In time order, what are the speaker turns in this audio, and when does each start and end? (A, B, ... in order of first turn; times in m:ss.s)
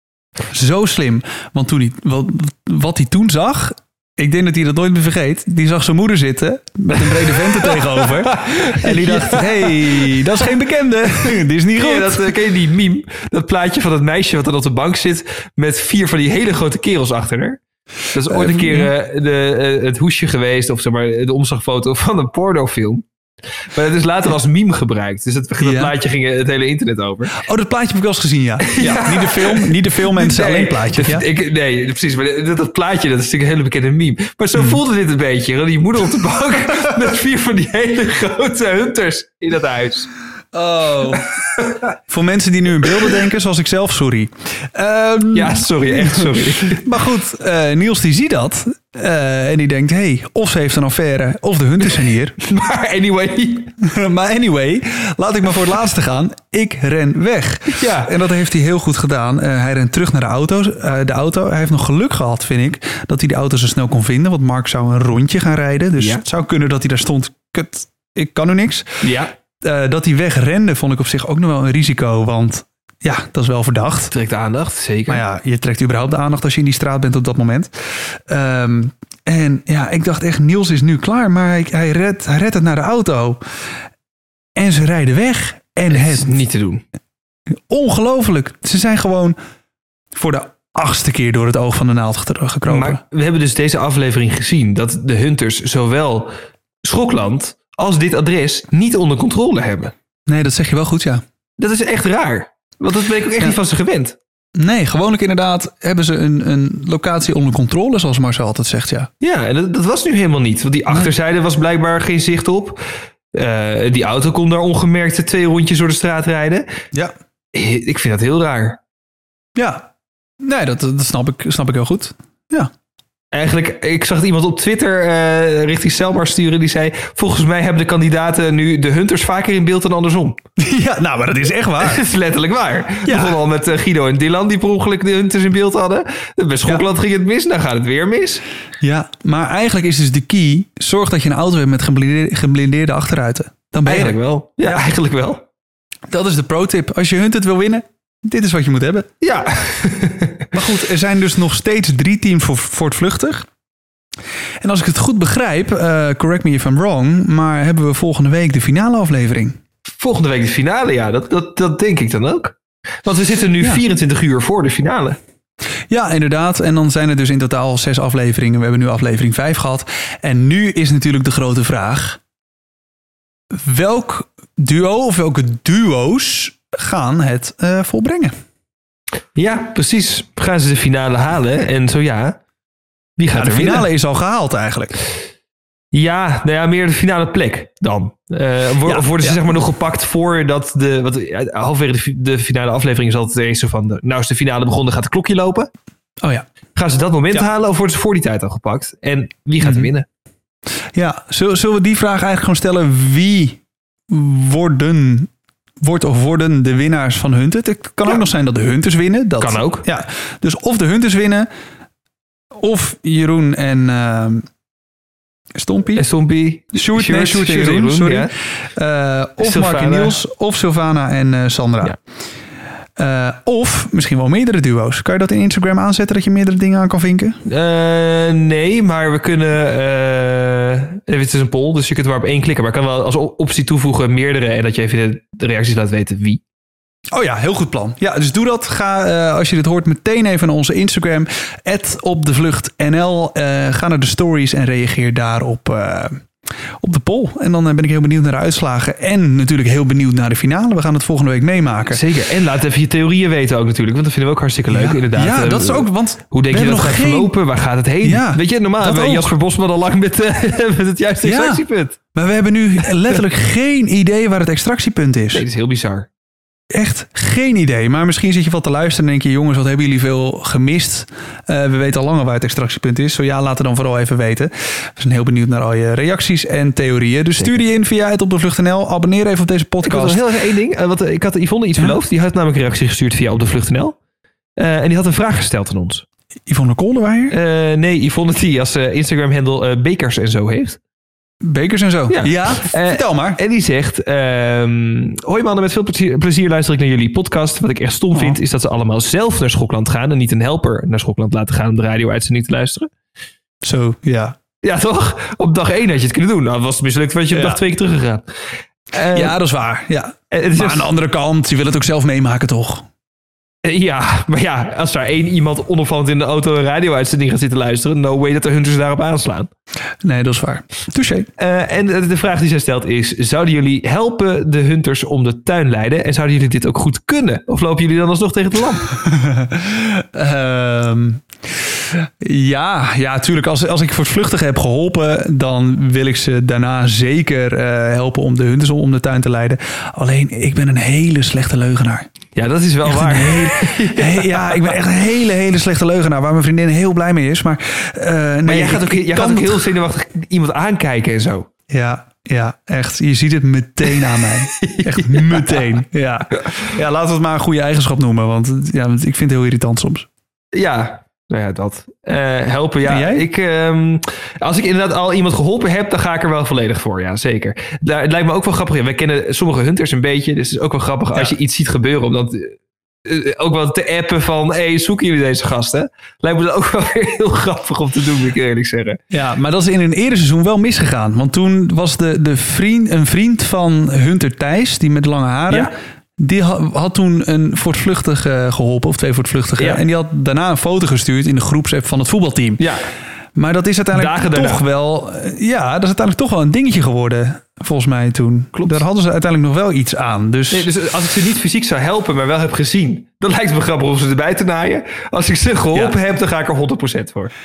0:00.5-0:12.3 A
0:07.9-0:10.2 B
0:11.7-0:23.0 B
0:18.3-0:18.9 A
0:23.7-0:27.4 B
0:25.6-0:25.9 A
0:27.4-0:31.2 A
0:28.6-0:40.1 B
0:40.5-0:41.3 A
0:41.5-0:41.8 B
0:42.1-0:52.4 A
0:45.3-0:46.9 B
0:52.4-0:53.7 B
0:53.8-1:09.0 A
0:57.7-0:58.1 B
1:06.0-1:06.2 B
1:09.0-1:09.3 B
1:09.6-1:14.1 A
1:14.1-1:15.2 B
1:15.1-1:23.4 A
1:24.6-1:26.4 A
1:25.9-1:26.8 B
1:27.5-1:29.4 A
1:30.1-1:33.0 A
1:32.7-1:36.3 B
1:36.8-1:39.9 B
1:40.3-1:41.2 A
1:41.6-1:44.2 B
1:44.6-1:49.1 A
1:49.2-1:52.8 B
1:53.3-1:56.7 B
1:57.5-1:58.8 B
1:59.6-1:59.9 A
2:00.4-2:02.7 A
2:03.3-2:10.4 B
2:10.6-2:12.0 A
2:11.8-2:18.4 B
2:13.0-2:13.4 A
2:18.8-2:24.2 A
2:23.8-2:25.4 B
2:26.1-2:29.1 A
2:29.2-2:30.5 B
2:30.5-2:33.5 A
2:34.6-2:39.6 A
2:39.9-2:45.2 B
2:45.9-2:52.2 A
2:53.5-2:58.3 A
2:59.3-3:02.4 B
3:03.2-3:03.9 B
3:03.3-3:05.0 A
3:05.9-3:15.7 B
3:08.8-3:09.5 A
3:16.2-3:16.5 A
3:16.7-3:20.1 B
3:19.6-3:19.9 A
3:20.9-3:31.5 A
3:29.4-3:29.8 B
3:32.5-3:34.5 A
3:35.5-3:36.0 A
3:35.9-3:38.3 B
3:36.7-3:42.0 A
3:39.4-3:40.2 B
3:43.0-3:47.4 A
3:47.4-3:56.4 B
3:57.1-4:06.2 A
4:06.8-4:12.0 A
4:11.9-4:22.0 B
4:14.7-4:17.3 A
4:18.0-4:19.3 A
4:21.2-4:25.4 A
4:25.3-4:26.1 B
4:26.7-4:40.2 A
4:39.8-4:44.0 B
4:44.6-4:46.0 B
4:46.5-4:47.3 A
4:47.3-4:50.8 B
4:51.4-4:53.4 A
4:52.1-5:02.9 B
4:58.1-4:58.4 A
5:03.6-5:04.4 A
5:04.6-5:08.2 B
5:07.3-5:07.6 A
5:08.9-5:09.4 B
5:09.1-5:12.9 A
5:10.3-5:10.9 B
5:13.6-5:19.5 B
5:20.0-5:21.3 A
5:21.4-5:28.9 B
5:28.9-5:31.2 A
5:31.8-5:42.1 A
5:42.4-5:44.7 B
5:42.8-5:49.8 A
5:48.4-5:51.5 B
5:51.7-6:00.1 A
5:54.5-5:55.7 B
6:00.5-6:19.0 B
6:02.8-6:03.2 A
6:19.1-6:32.6 A
6:29.6-6:29.8 B
6:32.6-6:32.8 B
6:33.3-6:40.7 A
6:33.9-6:34.6 B
6:40.5-6:47.3 B